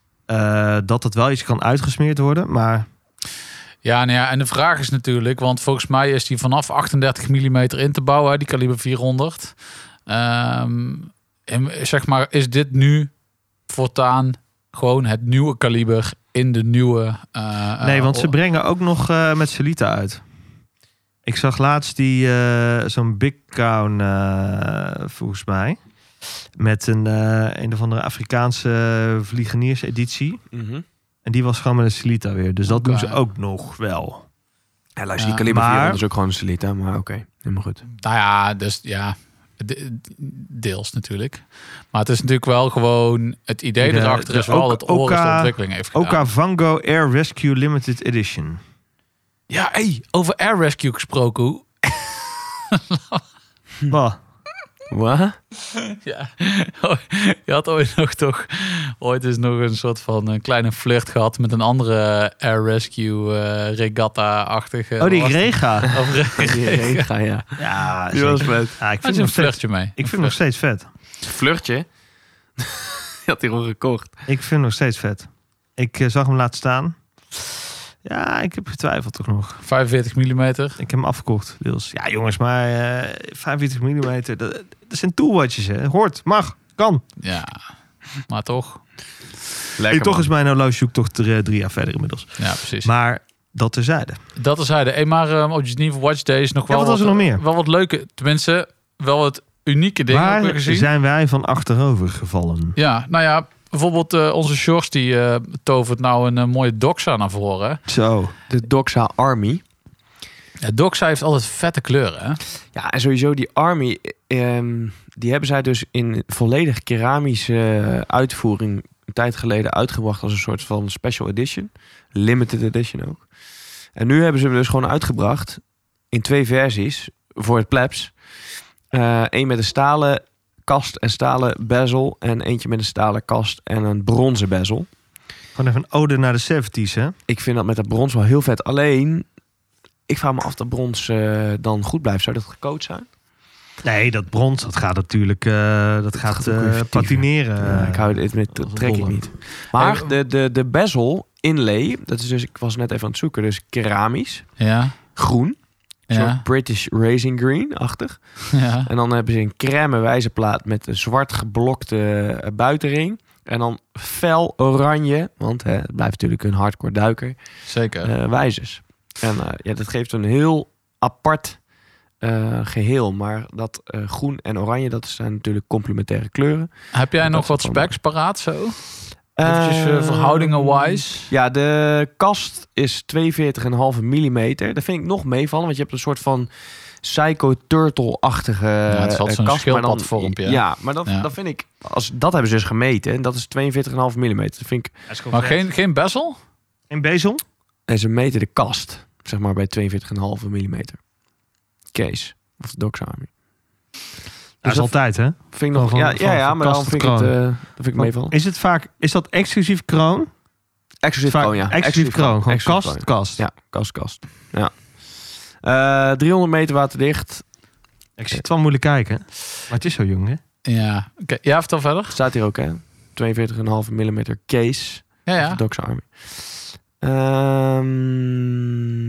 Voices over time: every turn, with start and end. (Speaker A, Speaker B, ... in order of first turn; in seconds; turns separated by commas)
Speaker A: 0.3-2.9, Speaker B: 3.8-9.5, Speaker B: 10.1-13.1, Speaker B: 13.7-18.3, Speaker A: 17.8-20.2, Speaker A: 21.3-25.8, Speaker A: 26.6-30.4, Speaker C: 30.5-30.9, Speaker A: 31.3-34.3, Speaker B: 32.7-33.2, Speaker C: 35.0-37.8, Speaker A: 35.4-36.0, Speaker B: 38.0-46.2, Speaker A: 43.8-48.6, Speaker B: 49.5-53.2, Speaker A: 53.9-54.2, Speaker C: 54.9-55.4, Speaker B: 55.7-67.0, Speaker A: 65.0-66.0, Speaker C: 65.9-67.6, Speaker A: 67.6-70.9, Speaker C: 68.1-68.8, Speaker B: 69.0-70.3, Speaker C: 71.2-71.9, Speaker C: 72.6-74.2, Speaker A: 74.3-77.0, Speaker A: 78.0-79.6, Speaker B: 79.6-80.8, Speaker A: 80.8-87.0, Speaker B: 87.2-87.6, Speaker B: 88.3-88.8, Speaker C: 89.8-90.3, Speaker A: 89.9-94.2, Speaker B: 92.4-92.9, Speaker B: 94.4-100.9, Speaker A: 96.7-97.4, Speaker A: 100.1-102.8, Speaker B: 102.8-107.8, Speaker A: 107.9-108.3, Speaker C: 108.5-109.6, Speaker B: 110.6-112.4, Speaker C: 112.8-123.3, Speaker C: 124.0-128.2, Speaker C: 128.9-134.9, Speaker A: 135.6-137.2, Speaker C: 137.3-139.3, Speaker C: 140.1-143.1, Speaker A: 143.8-149.2, Speaker C: 146.2-154.5, Speaker B: 149.8-150.1, Speaker B: 154.6-155.0, Speaker C: 155.2-167.4, Speaker B: 156.1-156.4, Speaker B: 158.5-158.9, Speaker B: 167.7-168.1, Speaker C: 168.0-171.6, Speaker C: 172.2-177.9, Speaker B: 176.9-178.8, Speaker C: 179.4-186.5, Speaker B: 179.4-181.3, Speaker C: 187.0-194.9, Speaker B: 188.9-191.3, Speaker A: 195.1-195.7, Speaker B: 195.3-196.4, Speaker A: 196.9-197.4, Speaker C: 197.9-201.0, Speaker C: 201.9-203.3, Speaker A: 204.6-207.4, Speaker C: 204.6-208.3, Speaker A: 208.0-210.3, Speaker C: 211.0-217.5, Speaker A: 211.2-213.4, Speaker A: 218.2-220.4, Speaker B: 220.7-222.2, Speaker C: 222.1-228.7, Speaker B: 225.3-225.6